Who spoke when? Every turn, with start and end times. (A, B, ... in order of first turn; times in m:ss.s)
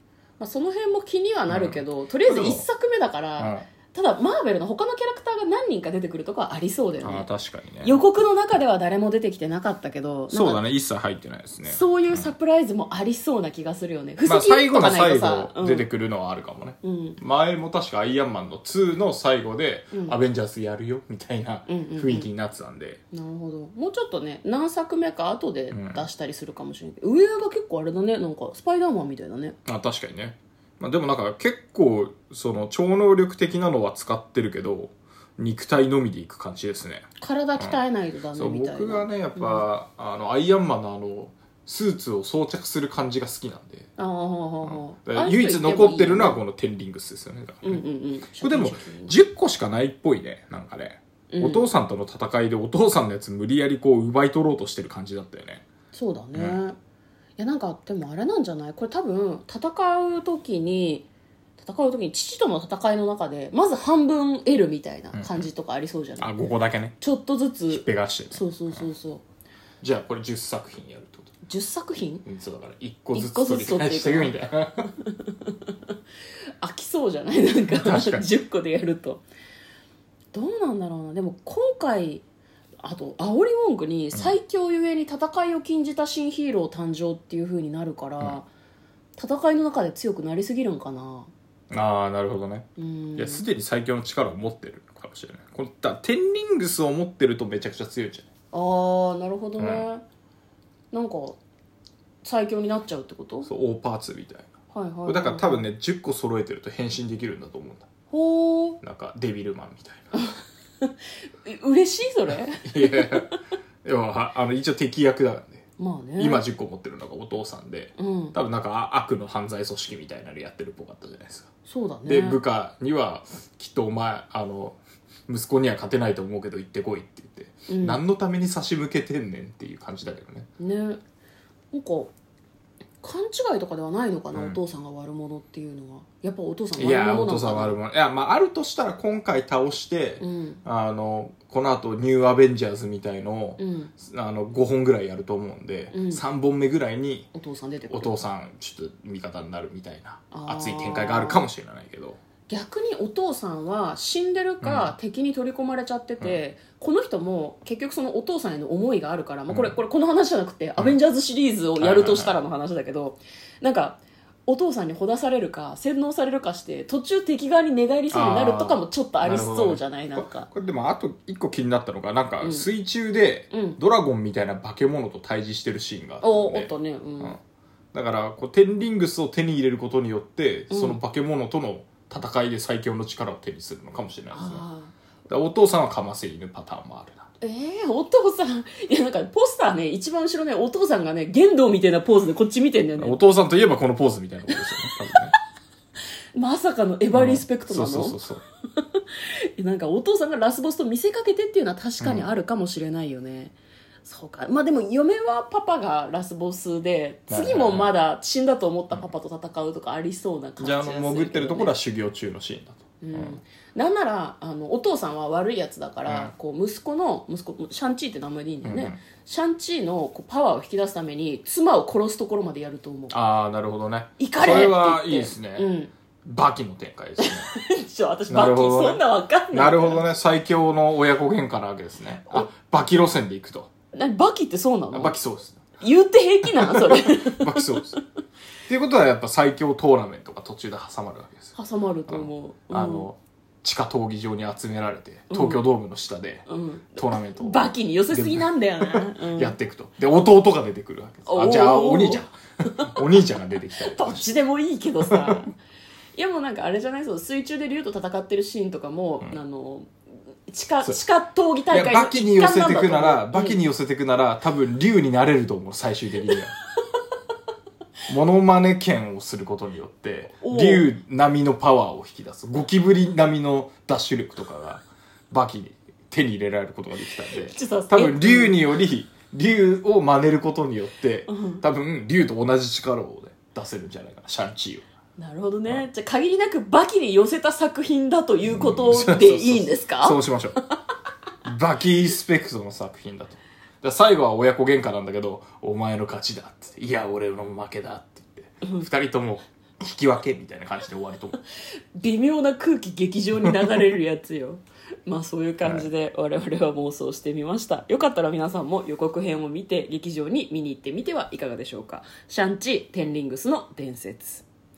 0:00.4-0:07.3 A
0:01.5-0:02.6 B
0:03.4-0:03.7 B
0:07.0-0:08.0 B
0:07.8-0:10.6 A
0:10.3-0:12.3 B
0:11.6-0:15.9 A
0:14.2-0:23.0 B
0:16.8-0:17.2 A
0:19.9-0:20.2 A
0:21.7-0:22.3 A
0:23.1-0:29.6 A
0:25.7-0:26.0 B
0:29.6-0:37.0 B
0:37.2-0:39.6 A
0:38.3-0:43.9 B
0:44.0-0:46.4 A
0:44.6-0:47.8 B
0:47.6-0:49.1 A
0:48.4-0:55.6 B
0:51.3-0:51.7 A
0:55.9-0:56.8 A
0:56.3-0:56.6 B
0:57.4-1:06.4 A
1:05.1-1:05.4 B
1:06.2-1:07.0 B
1:07.0-1:09.2 A
1:07.7-1:08.8 B
1:09.8-1:11.3 B
1:11.4-1:12.2 A
1:12.2-1:14.9 B
1:13.1-1:15.9 A
1:16.6-1:19.2 A
1:17.7-1:18.2 B
1:20.3-1:22.2 A
1:22.8-1:28.5 A
1:29.2-1:31.3 A
1:31.7-1:38.3 B
1:32.8-1:33.4 A
1:38.5-1:40.0 A
1:39.6-1:39.8 B
1:40.9-1:41.4 A
1:42.2-1:43.5 A
1:43.4-1:44.5 B
1:44.7-1:45.6 A
1:45.0-1:47.9 B
1:48.1-1:48.8 A
1:48.8-1:50.1 B
1:50.1-1:53.4 A
1:52.6-1:53.3 B
1:53.8-1:55.6 B
1:55.8-1:56.4 A
1:56.2-2:01.5 B
1:58.0-1:58.4 A
2:01.6-2:02.4 A
2:02.0-2:10.5 B
2:07.7-2:08.0 A
2:10.6-2:11.0 A
2:11.7-2:12.1 A
2:13.0-2:17.8 A
2:14.3-2:14.6 B
2:16.8-2:27.3 B
2:20.2-2:20.6 A
2:23.6-2:23.9 A
2:25.9-2:26.2 A
2:27.3-2:28.1 A
2:27.9-2:32.2 B
2:30.3-2:31.5 A
2:32.5-2:50.5 A
2:34.6-2:34.9 B
2:39.5-2:39.8 B
2:41.8-2:42.4 B
2:48.1-2:57.4 B
2:52.4-2:52.7 A
2:53.5-2:53.8 A
2:56.2-2:57.4 A
2:57.9-3:04.6 B
3:00.7-3:01.0 A
3:04.3-3:04.9 A
3:05.3-3:07.3 B
3:07.4-3:13.2 A
3:13.0-3:15.3 B
3:16.3-3:18.2 A
3:17.1-3:18.4 B
3:18.8-3:31.7 A
3:22.0-3:22.3 B
3:27.3-3:27.9 B
3:30.6-3:33.4 B
3:33.0-3:43.2 A
3:36.1-3:36.3 B
3:38.6-3:39.0 B
3:43.1-3:45.7 B
3:44.2-3:45.9 A
3:46.2-3:47.5 B
3:47.2-3:50.0 A
3:48.3-3:53.7 B
3:53.9-3:55.1 A
3:54.9-3:55.6 B
3:55.8-3:57.8 A
3:56.5-3:58.0 B
3:58.7-4:01.5 B
4:01.5-4:03.1 A
4:02.1-4:14.2 B
4:05.3-4:05.6 A
4:06.5-4:09.6 A
4:11.2-4:12.9 A
4:13.8-4:15.5 A
4:15.0-4:15.4 B
4:16.2-4:19.9 A
4:20.5-4:23.6 A
4:21.7-4:26.5 B
4:28.1-4:44.8 B
4:30.4-4:30.9 A
4:37.2-4:38.6 A
4:41.3-4:41.6 A
4:45.2-4:50.8 A
4:48.4-4:50.6 B
4:51.4-5:01.4 B
5:02.0-5:14.4 A
5:05.6-5:05.9 B